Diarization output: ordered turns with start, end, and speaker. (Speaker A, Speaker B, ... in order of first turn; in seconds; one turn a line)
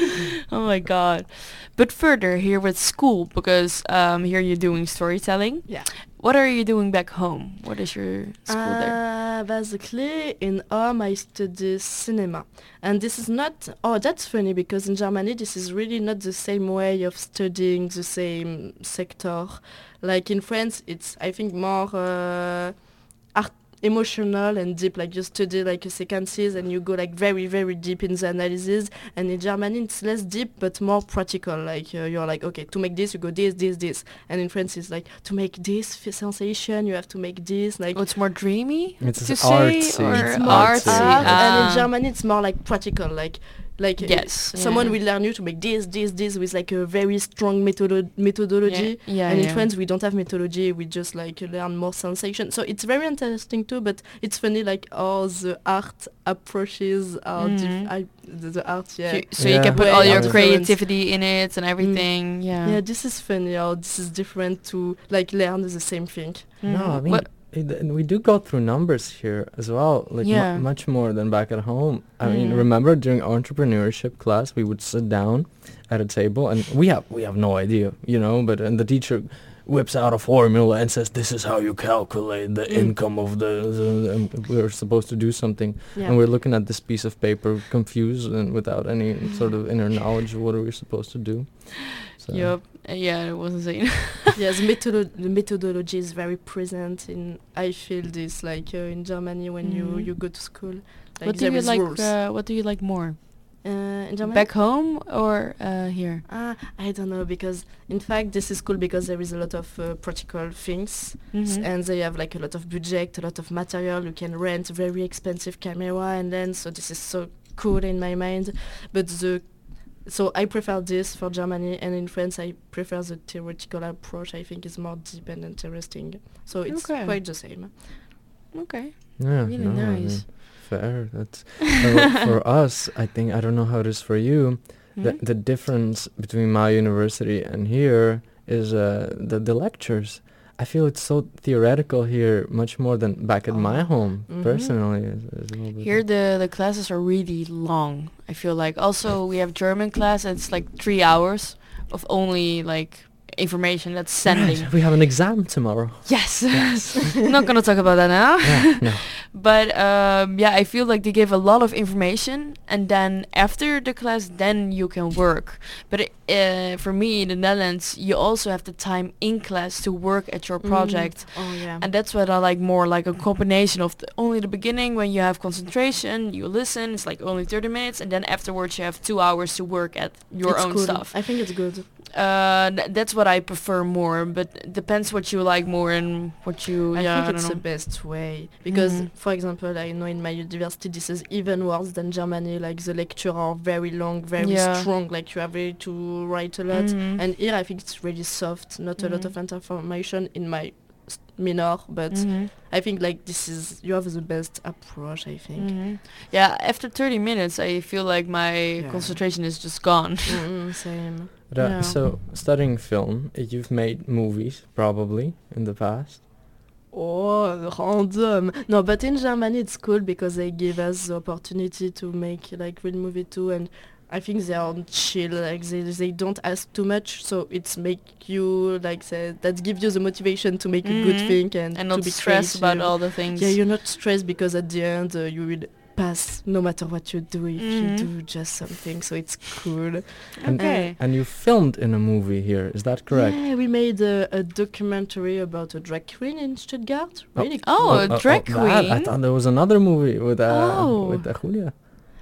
Speaker A: 0.5-9.0
Speaker B: 8.5-38.0
Speaker A: 37.9-41.9
Speaker C: 39.0-41.7
Speaker B: 40.1-61.1
Speaker A: 44.0-45.0
Speaker A: 48.6-49.7
Speaker A: 57.4-57.9
Speaker A: 59.1-62.8
Speaker C: 59.4-60.4
Speaker B: 61.8-66.5
Speaker A: 66.6-67.3
Speaker C: 66.6-92.6
Speaker A: 70.2-70.7
Speaker A: 72.2-72.7
Speaker B: 82.7-82.9
Speaker B: 85.9-86.2
Speaker A: 92.2-94.4
Speaker B: 94.3-102.1
Speaker A: 99.6-100.7
Speaker A: 101.2-103.7
Speaker B: 103.6-104.5
Speaker A: 104.3-106.2
Speaker B: 106.3-127.8
Speaker A: 111.3-111.7
Speaker A: 126.7-127.2
Speaker A: 128.5-130.4
Speaker C: 129.2-146.1
Speaker A: 134.9-135.2
Speaker B: 143.5-144.7
Speaker A: 145.8-154.8
Speaker C: 154.3-157.1
Speaker A: 156.1-189.1
Speaker C: 158.4-159.1
Speaker B: 170.6-171.9
Speaker B: 180.4-181.9
Speaker B: 186.9-205.8
Speaker A: 194.4-194.9
Speaker A: 196.7-197.2
Speaker A: 199.0-199.3
Speaker A: 202.1-202.5
Speaker A: 205.6-210.4
Speaker B: 208.8-209.3
Speaker B: 210.3-211.3
Speaker C: 211.5-216.2
Speaker A: 211.6-212.0
Speaker B: 216.9-240.9
Speaker A: 230.8-233.6
Speaker A: 237.6-238.1
Speaker A: 240.4-241.0
Speaker C: 240.5-243.4
Speaker B: 243.1-248.2
Speaker C: 247.4-251.8
Speaker A: 247.6-249.1
Speaker A: 250.5-251.3